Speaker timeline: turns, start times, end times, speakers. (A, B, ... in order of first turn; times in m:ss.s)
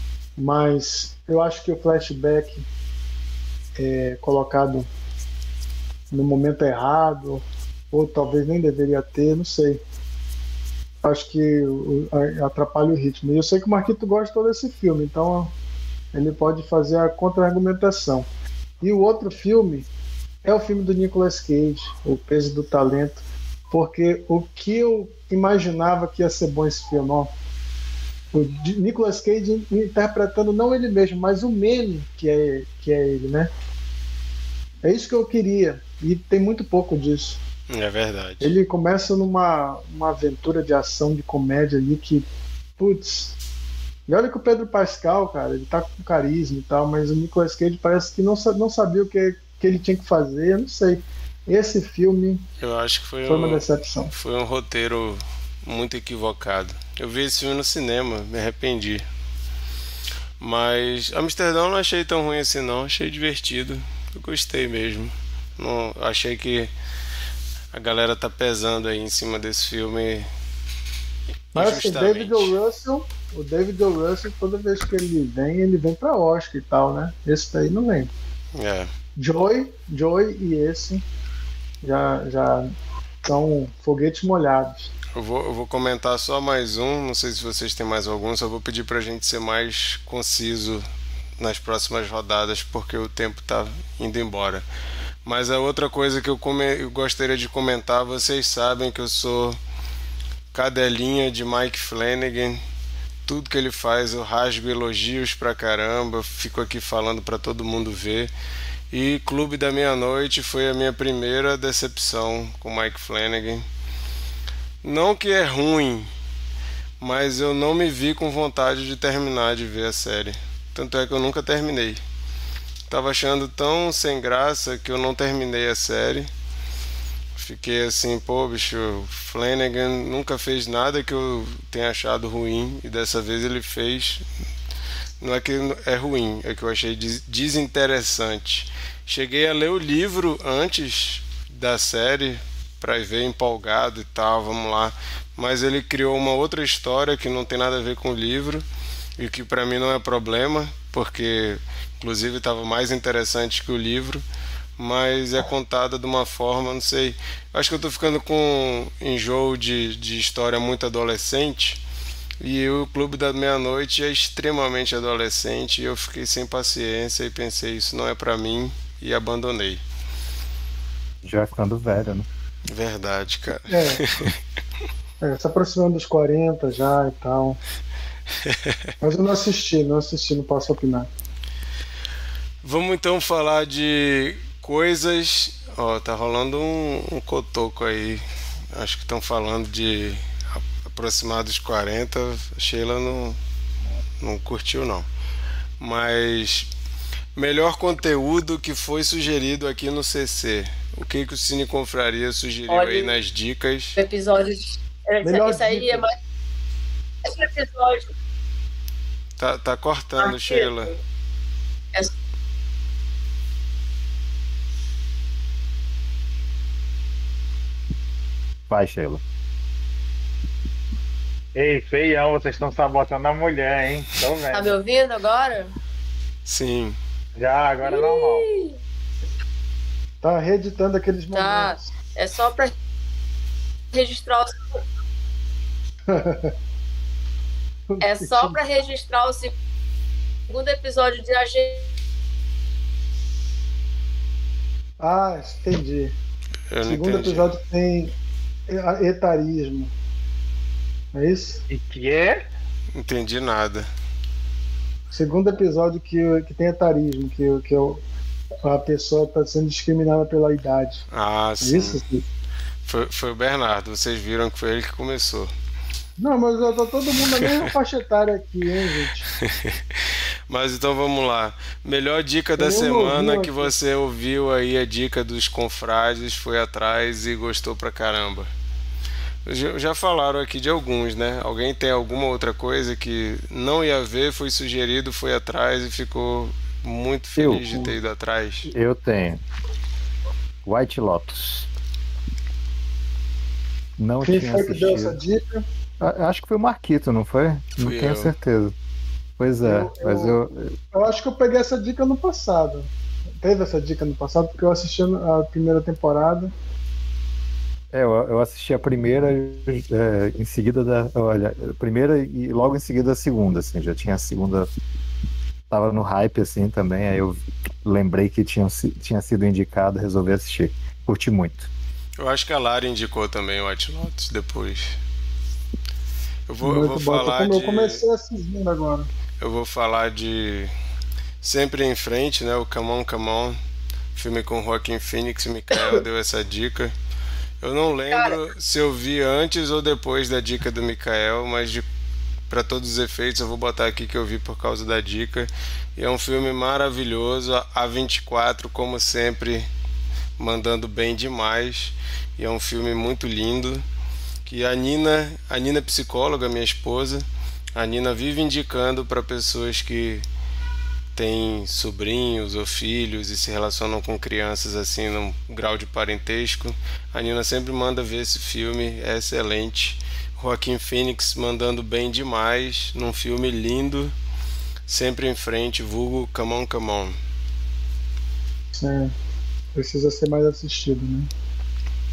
0:00.4-0:02.6 A
0:03.8-0:04.9 A
0:06.1-0:09.8 A
0:11.0-0:15.5 A
0:16.1-0:18.3 A
0:18.8-0:19.9 A
0:20.4-0:27.3 A
0:28.3-0:33.5 A
0:34.8-0:37.4 A
0:37.7-0:38.6 B
0:38.4-0:42.3 A
0:42.8-0:43.4 A
0:44.1-0:52.4 A
0:52.6-0:59.0 B
0:53.3-0:54.1 A
1:00.4-1:06.7 B
1:07.7-1:10.3 B
1:11.5-1:12.5 B
1:11.6-1:18.1 A
1:18.6-1:18.9 B
1:19.2-1:21.0 A
1:21.8-1:22.7 A
1:23.2-1:24.9 A
1:25.2-1:30.8 B
1:31.4-1:34.6 B
1:35.2-1:39.6 B
1:40.5-1:42.6 B
1:43.3-1:48.3 B
1:48.9-1:53.6 B
1:54.8-1:56.1 B
1:57.0-2:02.0 B
2:02.9-2:06.3 B
2:07.4-2:14.2 B
2:15.2-2:28.6 B
2:29.2-2:34.2 B
2:34.8-2:41.8 B
2:42.4-2:49.8 B
2:51.2-2:52.2 C
2:52.7-2:54.4 B
2:53.7-2:54.0 A
2:55.2-2:57.6 A
2:58.4-2:58.8 B
2:59.0-3:01.1 A
3:02.6-3:13.4 B
3:14.2-3:15.1 B
3:15.8-3:16.7 B
3:17.4-3:24.0 B
3:22.7-3:23.1 D
3:24.0-3:26.1 D
3:25.2-3:26.1 A
3:27.2-3:28.1 D
3:29.4-3:30.9 B
3:30.2-3:30.9 D
3:38.7-3:39.2 C
3:41.6-3:44.8 E
3:44.5-3:45.7 D
3:46.5-3:47.0 B
3:47.4-3:48.5 E
3:47.8-3:48.7 D
3:50.2-3:51.9 A
3:51.3-3:52.7 D
3:53.9-3:54.6 D
3:56.1-3:56.5 A
3:57.9-3:58.6 A
3:58.0-3:59.5 D
4:00.5-4:01.8 D
4:05.0-4:06.1 A
4:06.7-4:07.5 B
4:06.9-4:08.1 A
4:08.7-4:09.9 A
4:11.1-4:11.6 A
4:11.7-4:12.4 E
4:13.0-4:13.9 B
4:15.1-4:18.0 A
4:18.6-4:21.0 A
4:21.1-4:22.0 B
4:21.6-4:22.2 A
4:22.9-4:25.5 B
4:26.2-4:29.3 A
4:27.3-4:27.7 B
4:29.4-4:29.8 B
4:30.5-4:38.5 B
4:32.6-4:33.7 A
4:39.4-4:48.7 B
4:47.4-4:47.9 C
4:48.7-4:49.4 C
4:50.6-4:51.7 C
4:54.0-4:55.2 C
4:54.2-4:55.6 A
4:56.0-4:58.7 C
4:57.8-4:58.3 B
4:59.4-5:00.7 C
4:59.6-5:00.4 A
5:00.9-5:02.9 A
5:03.4-5:06.5 A
5:07.9-5:14.7 C
5:15.7-5:21.7 C
5:22.2-5:25.0 B
5:26.5-5:28.0 B
5:26.6-5:29.1 A
5:29.4-5:30.7 B
5:31.4-5:33.6 B
5:34.2-5:36.9 B
5:37.6-5:41.8 B
5:42.5-5:49.7 B
5:50.4-5:53.8 B
5:54.5-6:00.2 B
6:01.2-6:14.1 B
6:14.9-6:17.2 B
6:18.7-6:19.1 A
6:19.8-6:21.3 A